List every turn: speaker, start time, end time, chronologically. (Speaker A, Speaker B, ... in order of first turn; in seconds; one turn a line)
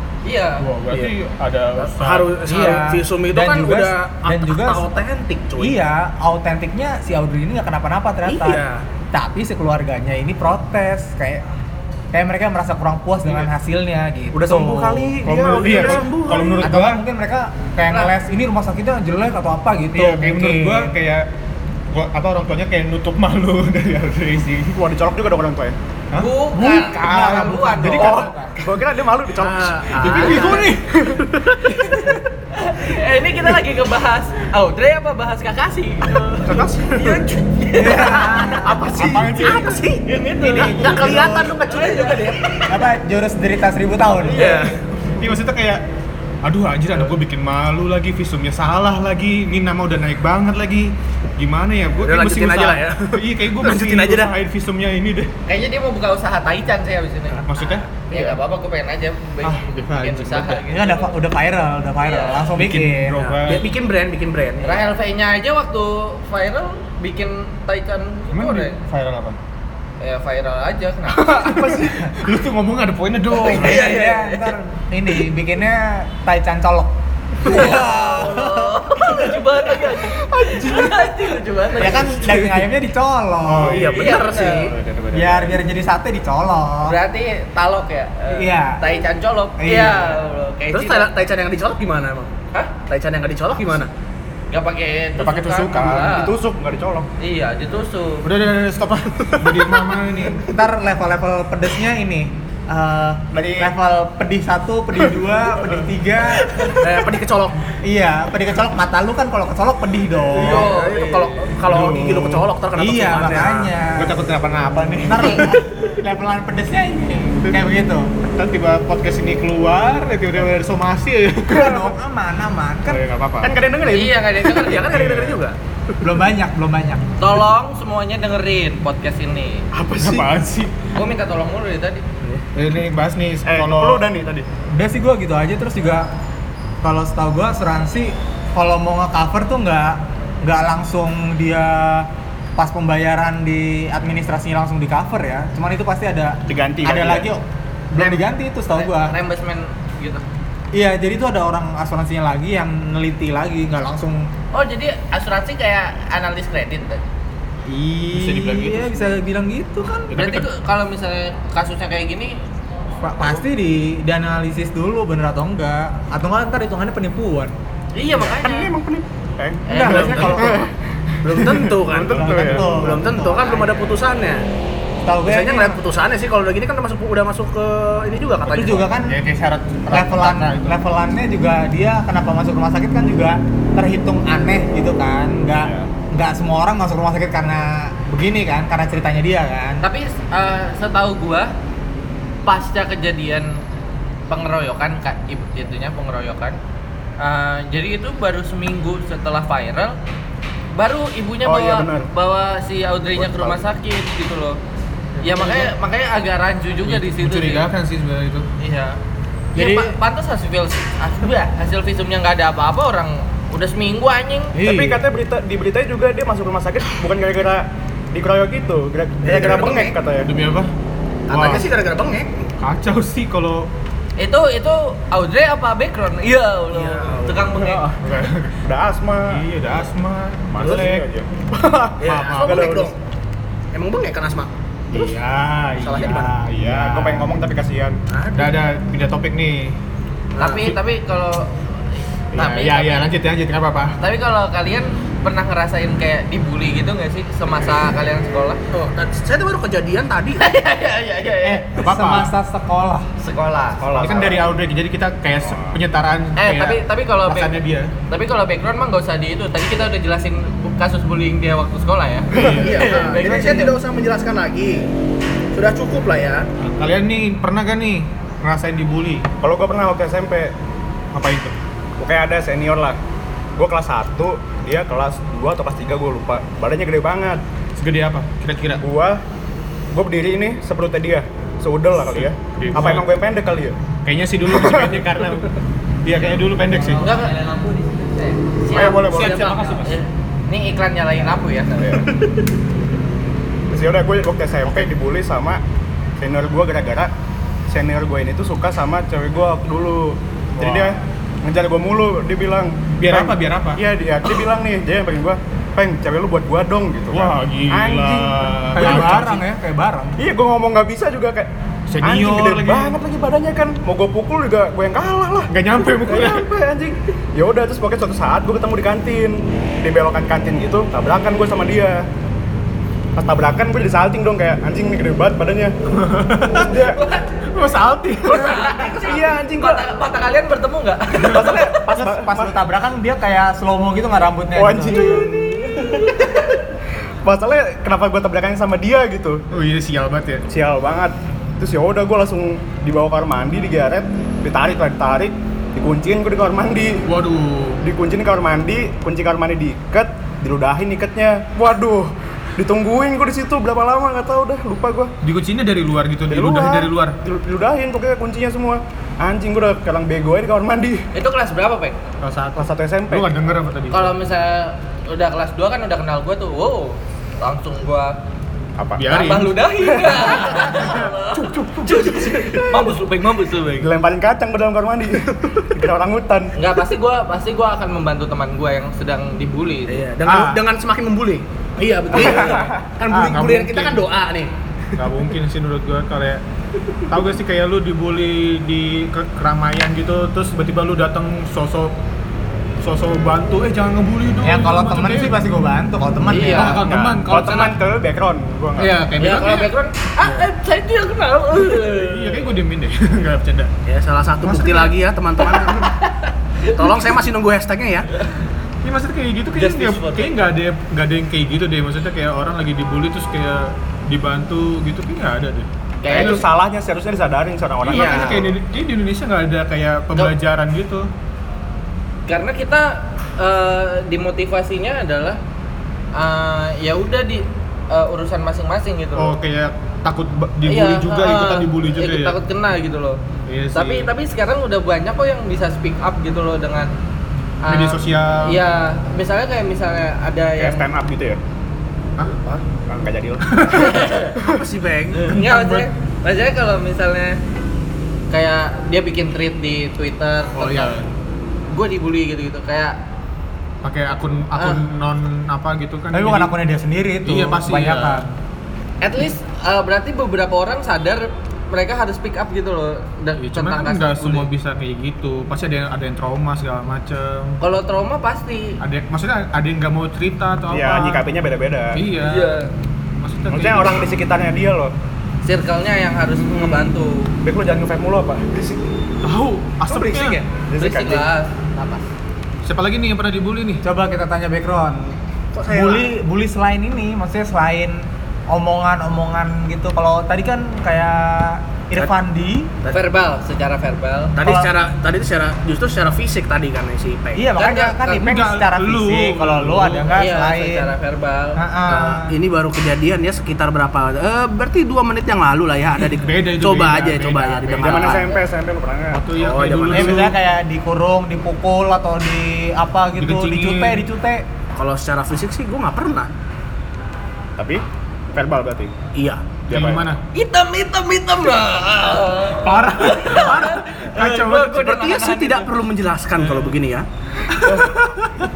Speaker A: 0.2-0.7
Speaker B: 0.6-2.6
Speaker C: 1.8-5.8
Speaker D: 2.5-4.9
Speaker D: 5.6-11.4
Speaker C: 8.2-8.8
Speaker D: 12.1-15.2
Speaker E: 14.3-16.5
Speaker C: 15.2-16.7
Speaker B: 15.2-17.0
Speaker D: 16.6-20.9
Speaker A: 17.9-18.1
Speaker B: 19.9-21.3
Speaker B: 21.9-24.8
Speaker E: 24.8-25.8
Speaker B: 26.1-28.1
Speaker A: 26.1-28.3
Speaker D: 26.9-28.6
Speaker E: 27.9-31.2
Speaker C: 29.4-31.6
Speaker B: 30.0-31.0
Speaker A: 31.8-38.5
Speaker E: 36.4-37.2
Speaker D: 37.7-38.9
Speaker C: 37.8-42.6
Speaker B: 38.9-39.8
Speaker A: 40.1-42.7
Speaker D: 40.5-41.5
Speaker B: 40.5-41.3
Speaker D: 42.7-44.7
Speaker C: 44.2-44.8
Speaker B: 45.2-45.8
Speaker B: 46.4-55.3
Speaker C: 52.0-54.3
Speaker A: 55.5-61.1
Speaker C: 57.3-58.4
Speaker B: 57.5-57.9
Speaker B: 59.4-60.6
Speaker D: 60.7-63.2
Speaker A: 62.0-62.5
Speaker B: 62.5-63.7
Speaker C: 63.2-64.8
Speaker A: 64.6-68.8
Speaker B: 68.3-69.4
Speaker A: 70.0-71.4
Speaker E: 71.2-72.0
Speaker B: 71.4-73.9
Speaker D: 73.3-79.2
Speaker A: 73.4-74.5
Speaker C: 73.6-74.1
Speaker A: 77.4-82.3
Speaker D: 81.8-84.0
Speaker C: 81.8-82.5
Speaker B: 83.4-85.6
Speaker C: 83.6-84.7
Speaker A: 83.9-84.7
Speaker D: 85.1-87.0
Speaker A: 86.8-91.1
Speaker D: 88.3-88.8
Speaker D: 89.6-90.2
Speaker C: 90.7-92.3
Speaker C: 92.9-93.9
Speaker A: 94.5-96.3
Speaker B: 95.2-96.1
Speaker E: 95.7-97.1
Speaker A: 97.2-98.3
Speaker B: 98.2-100.5
Speaker D: 100.4-106.8
Speaker E: 103.3-103.7
Speaker C: 106.8-107.6
Speaker D: 107.8-110.7
Speaker A: 110.3-111.4
Speaker C: 110.3-113.7
Speaker B: 111.7-112.5
Speaker D: 112.8-114.2
Speaker B: 113.9-115.7
Speaker D: 115.1-118.1
Speaker B: 118.3-121.9
Speaker D: 121.5-123.0
Speaker B: 122.8-123.6
Speaker E: 123.4-124.4
Speaker A: 123.9-125.0
Speaker C: 124.4-125.6
Speaker B: 124.9-125.4
Speaker D: 126.0-127.0
Speaker A: 127.2-129.7
Speaker E: 129.7-130.3
Speaker B: 130.0-130.7
Speaker A: 130.9-132.0
Speaker B: 132.5-134.1
Speaker E: 133.4-134.5
Speaker D: 134.7-136.1
Speaker D: 136.8-149.1
Speaker E: 146.5-147.3
Speaker A: 148.8-150.2
Speaker D: 150.7-154.3
Speaker A: 154.5-157.0
Speaker D: 157.7-160.1
Speaker B: 158.1-159.0
Speaker B: 160.1-160.5
Speaker A: 160.2-162.3
Speaker D: 163.0-167.5
Speaker A: 167.9-168.7
Speaker E: 168.2-170.7
Speaker A: 169.7-170.6
Speaker D: 169.7-170.7
Speaker B: 170.0-170.6
Speaker C: 171.2-174.4
Speaker E: 171.4-172.8
Speaker D: 172.1-173.8
Speaker B: 172.2-172.5
Speaker D: 175.0-175.8
Speaker C: 175.2-178.9
Speaker D: 178.5-179.2
Speaker B: 179.1-180.8
Speaker D: 179.9-189.8
Speaker A: 189.8-191.5
Speaker A: 192.4-193.6
Speaker A: 194.3-196.6
Speaker A: 197.2-199.9
Speaker A: 200.7-204.6
Speaker E: 201.4-202.1
Speaker E: 203.2-203.6
Speaker A: 205.2-207.7
Speaker B: 206.8-208.5
Speaker A: 208.6-209.0
Speaker A: 209.5-214.5
Speaker D: 209.6-209.9
Speaker D: 214.6-214.9
Speaker E: 214.6-220.3
Speaker C: 219.2-219.9
Speaker B: 220.2-220.7
Speaker C: 221.3-222.4
Speaker B: 221.3-221.7
Speaker B: 222.6-223.7
Speaker A: 224.2-227.9
Speaker C: 226.7-227.8
Speaker B: 228.0-228.6
Speaker E: 228.6-229.4
Speaker B: 229.3-231.1
Speaker E: 230.5-232.9
Speaker C: 232.0-232.9
Speaker B: 232.0-232.8
Speaker C: 233.7-235.1
Speaker B: 234.9-237.3
Speaker C: 235.8-236.3
Speaker E: 236.6-238.0
Speaker C: 238.1-238.7
Speaker B: 238.3-239.8
Speaker C: 240.3-240.7
Speaker A: 240.4-241.6
Speaker A: 242.3-243.1
Speaker B: 242.3-244.0
Speaker A: 244.0-248.6
Speaker C: 248.7-250.4
Speaker A: 250.4-251.7
Speaker B: 251.4-252.3
Speaker D: 251.7-253.1
Speaker A: 253.2-254.1
Speaker E: 253.8-254.4
Speaker B: 253.9-257.9
Speaker E: 255.4-255.8
Speaker A: 256.4-257.6
Speaker A: 258.1-263.7
Speaker B: 262.3-263.4
Speaker E: 262.4-262.7
Speaker C: 262.4-264.9
Speaker C: 265.5-266.5
Speaker B: 266.6-269.2
Speaker E: 269.4-270.5
Speaker B: 271.1-271.6
Speaker E: 272.0-273.0
Speaker E: 273.6-277.4
Speaker B: 277.8-278.8
Speaker E: 278.8-279.2
Speaker E: 279.9-283.8
Speaker B: 282.1-283.1
Speaker B: 284.0-285.5
Speaker E: 284.5-285.0
Speaker B: 286.0-287.1
Speaker A: 287.0-292.1
Speaker E: 288.7-289.4
Speaker B: 288.7-290.0
Speaker C: 288.9-289.7
Speaker E: 293.7-295.6
Speaker E: 296.2-297.1
Speaker E: 297.7-309.3
Speaker B: 300.6-301.0
Speaker B: 303.0-303.8
Speaker B: 307.1-309.4
Speaker D: 308.7-310.2
Speaker E: 310.2-311.5
Speaker B: 311.9-312.9
Speaker E: 312.0-315.5
Speaker B: 315.5-316.5
Speaker E: 316.0-322.1
Speaker E: 323.2-325.8
Speaker B: 325.9-326.8
Speaker E: 326.6-327.0
Speaker A: 326.7-327.4
Speaker B: 327.5-328.6
Speaker E: 328.3-329.9
Speaker A: 328.3-331.8
Speaker E: 331.2-332.6
Speaker B: 331.2-331.5
Speaker D: 331.9-335.2
Speaker E: 334.5-336.2
Speaker A: 335.8-336.6
Speaker E: 337.2-339.4
Speaker B: 339.5-340.4
Speaker E: 340.5-347.0
Speaker B: 347.1-347.8
Speaker E: 347.8-355.1
Speaker B: 355.2-357.1
Speaker E: 356.3-361.0
Speaker A: 361.1-362.0
Speaker B: 362.2-364.1
Speaker E: 362.6-363.3
Speaker A: 363.9-368.1
Speaker E: 368.8-369.1
Speaker B: 368.9-369.6
Speaker A: 369.1-373.9
Speaker B: 370.5-371.1
Speaker E: 371.3-372.9
Speaker E: 373.8-376.5
Speaker C: 375.3-375.6
Speaker A: 376.6-380.1
Speaker C: 379.9-384.5
Speaker B: 380.2-380.6
Speaker B: 382.1-384.0
Speaker B: 384.9-386.4
Speaker B: 387.1-391.9
Speaker B: 392.8-395.4
Speaker D: 394.4-396.8
Speaker A: 396.3-396.8
Speaker B: 396.4-397.8
Speaker E: 396.8-399.0
Speaker B: 398.8-400.5
Speaker A: 399.2-402.5
Speaker B: 401.9-403.7
Speaker C: 403.9-405.9
Speaker B: 404.4-404.9
Speaker A: 406.6-407.1
Speaker C: 406.7-408.1
Speaker B: 408.8-416.4
Speaker A: 409.6-410.4
Speaker A: 416.0-416.4
Speaker E: 416.1-418.5
Speaker B: 417.8-421.1
Speaker A: 417.9-418.5
Speaker A: 422.3-425.4
Speaker A: 426.1-429.4
Speaker B: 429.1-432.4
Speaker A: 430.7-433.2
Speaker B: 433.5-434.1
Speaker A: 433.7-436.9
Speaker A: 437.6-440.8
Speaker B: 437.7-438.6
Speaker E: 440.6-441.4
Speaker E: 442.9-444.2
Speaker B: 443.4-444.1
Speaker A: 443.7-444.4
Speaker C: 444.4-445.3
Speaker A: 445.2-447.4
Speaker B: 445.2-445.9
Speaker A: 448.3-451.0
Speaker B: 450.5-451.1
Speaker A: 451.7-452.9
Speaker B: 453.8-456.5
Speaker A: 454.6-454.8
Speaker D: 456.1-458.2
Speaker B: 457.2-458.2
Speaker A: 459.0-464.5
Speaker B: 463.4-467.6
Speaker A: 467.6-468.8
Speaker B: 468.8-471.2
Speaker E: 470.7-472.0
Speaker B: 471.9-472.5
Speaker A: 472.2-472.7
Speaker B: 473.2-474.1
Speaker E: 473.5-474.9
Speaker A: 475.4-477.3
Speaker E: 476.4-476.9
Speaker E: 477.4-478.8
Speaker B: 479.2-480.4
Speaker C: 479.9-480.4
Speaker E: 480.7-481.3
Speaker A: 480.7-482.0
Speaker B: 482.6-483.8
Speaker D: 483.8-485.1
Speaker C: 485.5-486.1
Speaker D: 485.7-492.7
Speaker A: 492.9-494.4
Speaker C: 494.4-497.4
Speaker D: 494.4-494.7
Speaker D: 497.3-500.9
Speaker A: 497.6-498.2
Speaker B: 498.1-500.2
Speaker A: 500.1-501.6
Speaker D: 501.6-502.3
Speaker C: 501.9-508.3
Speaker B: 506.0-508.2
Speaker E: 507.8-509.2
Speaker B: 509.1-510.4
Speaker C: 509.3-510.3
Speaker D: 509.9-514.4
Speaker B: 513.2-514.0
Speaker C: 514.8-516.3
Speaker E: 517.6-517.8
Speaker E: 518.3-518.9
Speaker C: 519.1-519.5
Speaker E: 519.7-520.1
Speaker B: 519.7-520.2
Speaker A: 520.3-525.7
Speaker B: 522.5-524.8
Speaker C: 524.7-527.0